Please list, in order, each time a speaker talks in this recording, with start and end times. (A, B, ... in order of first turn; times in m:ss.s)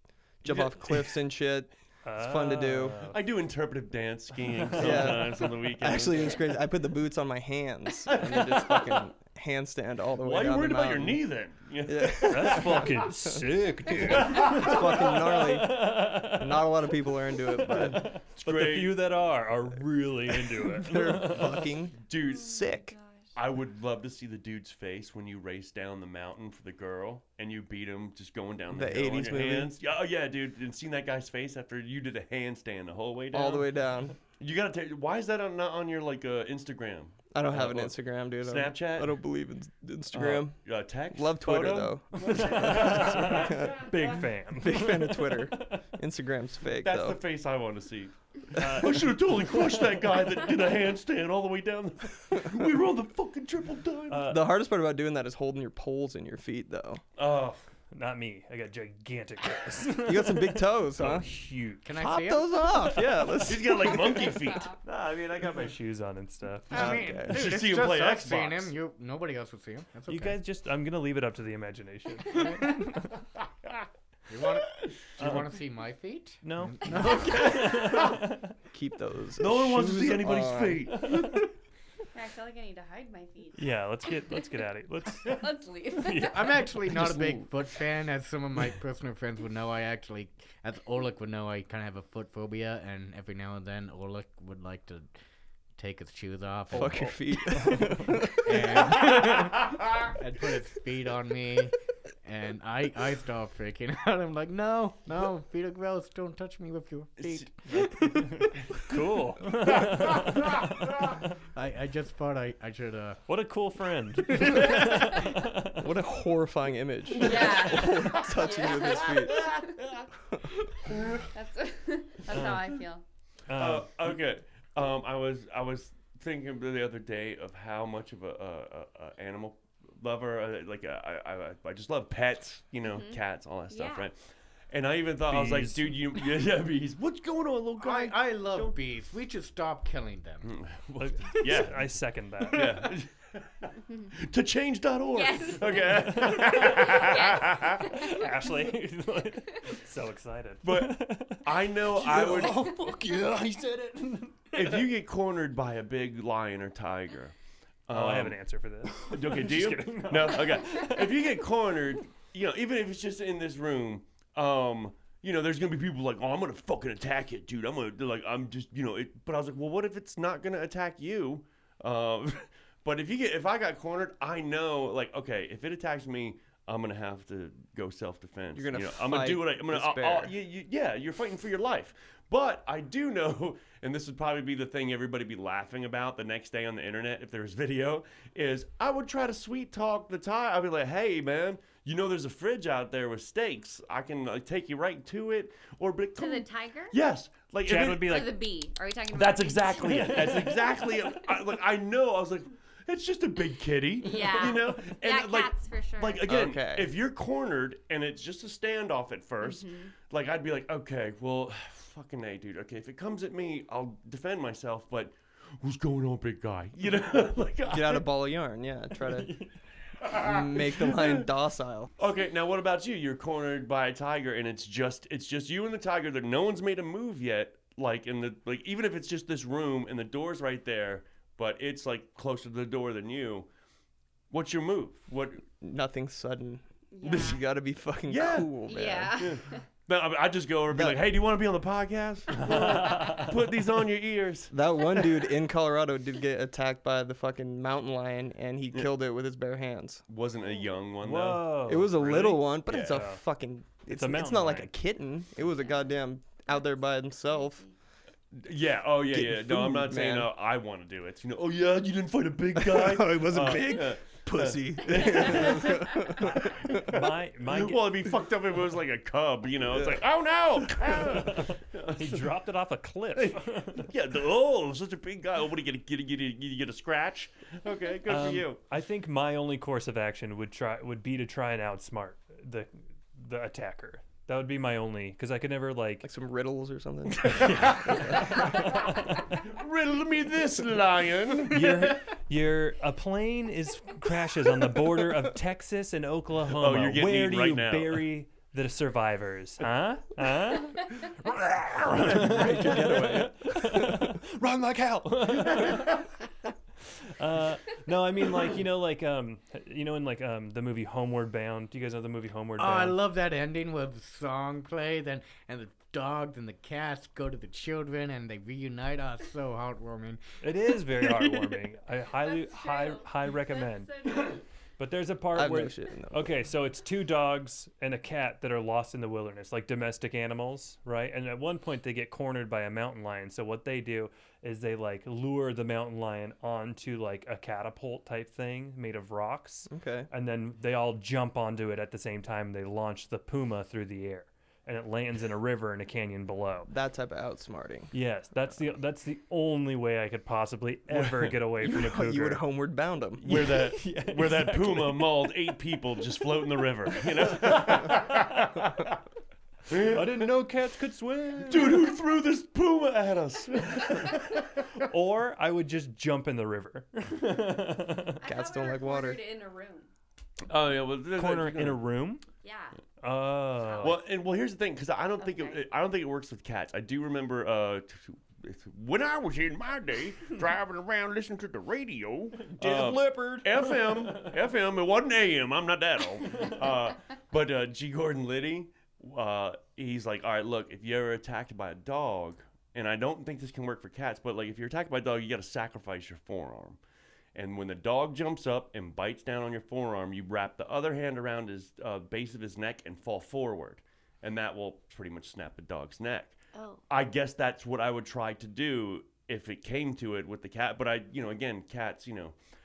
0:00.4-0:03.1 A
0:00.5-0:01.1 B
0:02.0-0:03.2 C
0:03.1-0:06.4 B
0:04.7-0:05.1 C
0:04.7-0:11.2 A
0:08.1-0:09.0 B
0:10.2-0:12.9 B
0:11.9-0:18.1 A
0:12.2-0:16.8 C
0:14.2-0:14.7 B
0:17.6-0:21.7 C
0:17.8-0:19.0 B
0:20.8-0:22.9 A
0:22.0-0:22.6 B
0:22.3-0:23.3 D
0:23.4-0:33.7 B
0:28.7-0:29.7 A
0:33.3-0:34.2 A
0:34.2-0:39.2 B
0:37.3-0:40.6 A
0:40.1-0:43.6 B
0:41.1-0:43.9 A
0:42.2-0:45.8 C
0:44.6-0:47.2 A
0:46.8-0:54.3 B
0:48.6-0:50.0 C
0:54.1-0:54.5 C
0:54.3-0:57.0 A
0:57.2-0:57.6 B
0:57.9-1:01.9 C
1:00.0-1:01.3 A
1:01.8-1:02.9 E
1:01.9-1:04.3 A
1:03.4-1:05.5 B
1:04.3-1:04.8 D
1:04.9-1:07.0 C
1:06.7-1:10.4 E
1:06.7-1:07.4 A
1:07.3-1:08.7 B
1:10.1-1:13.1 C
1:14.3-1:17.8 E
1:15.2-1:15.5 C
1:16.4-1:18.5 C
1:18.7-1:20.8 A
1:19.4-1:21.2 B
1:21.0-1:21.4 C
1:22.1-1:23.6 D
1:23.6-1:25.5 C
1:25.2-1:26.5 D
1:26.0-1:27.1 C
1:26.3-1:35.1 E
1:35.8-1:37.2 E
1:36.7-1:38.1 C
1:36.7-1:39.0 A
1:38.4-1:48.8 E
1:47.2-1:47.5 B
1:47.7-1:51.2 C
1:51.6-1:53.2 E
1:53.3-1:55.9 C
1:54.3-1:54.9 E
1:55.8-1:59.4 A
1:57.2-1:59.7 D
1:59.1-1:59.8 B
2:00.9-2:01.2 B
2:01.3-2:03.0 D
2:02.3-2:02.6 C
2:03.5-2:03.9 C
2:03.6-2:14.2 B
2:12.8-2:14.1 D
2:14.7-2:18.8 B
2:15.3-2:16.2 C
2:17.8-2:20.5 E
2:20.4-2:21.9 B
2:21.0-2:22.7 C
2:22.5-2:27.8 B
2:25.1-2:28.4 D
2:27.9-2:34.9 C
2:30.6-2:32.7 B
2:34.5-2:37.3 B
2:37.9-2:38.4 B
2:37.9-2:41.2 C
2:39.0-3:18.3 B
2:58.5-3:00.3 A
3:16.2-3:17.0 D
3:17.6-3:18.4 C
3:18.0-3:20.6 D
3:19.1-3:38.1 B
3:24.0-3:26.3 D
3:26.3-3:26.9 A
3:29.4-3:29.9 D
3:37.7-3:39.4 A
3:39.2-3:39.5 C
3:40.0-3:41.3 B
3:40.1-3:41.9 A
3:42.0-3:53.5 B
3:54.3-3:55.4 B
3:55.6-3:59.2 A
3:56.9-3:57.4 D
3:58.1-3:58.6 B
3:58.6-3:59.6 D
3:59.1-4:04.5 B
4:00.7-4:01.0 A
4:02.4-4:03.3 C
4:04.5-4:10.0 A
4:10.1-4:13.0 B
4:11.0-4:13.2 C
4:11.7-4:17.6 A
4:13.9-4:14.7 C
4:15.5-4:15.9 D
4:16.4-4:17.7 D
4:18.4-4:32.3 B
4:19.1-4:20.3 A
4:22.6-4:26.9 A
4:26.7-4:27.8 C
4:31.2-4:33.9 C
4:33.2-4:38.6 B
4:38.1-4:46.1 C
4:46.0-4:48.4 A
4:47.3-4:51.9 B
4:47.4-4:49.4 C
4:51.5-5:06.0 C
4:56.6-4:58.1 B
5:01.9-5:04.1 A
5:07.0-5:13.0 C
5:12.6-5:21.6 E
5:20.4-5:46.7 C
5:22.1-5:24.4 D
5:25.3-5:26.3 A
5:39.7-5:40.1 A
5:46.7-5:47.9 A
5:47.9-5:52.4 C
5:50.9-5:51.3 B
5:51.6-5:53.7 A
5:53.2-5:58.6 B
5:53.4-5:55.5 C
5:57.3-5:58.5 C
5:59.7-6:00.3 B
5:59.7-6:01.9 C
6:01.5-6:04.7 B
6:04.8-6:08.2 C
6:08.2-6:09.9 D
6:08.2-6:09.2 A
6:10.5-6:11.8 B
6:11.2-6:12.2 C
6:12.4-6:12.8 D
6:13.0-6:14.0 C
6:13.6-6:14.0 D
6:13.8-6:36.8 B
6:15.2-6:15.6 D
6:22.6-6:24.3 C
6:37.4-6:46.4 B
6:46.5-6:46.8 D
6:46.9-6:52.4 B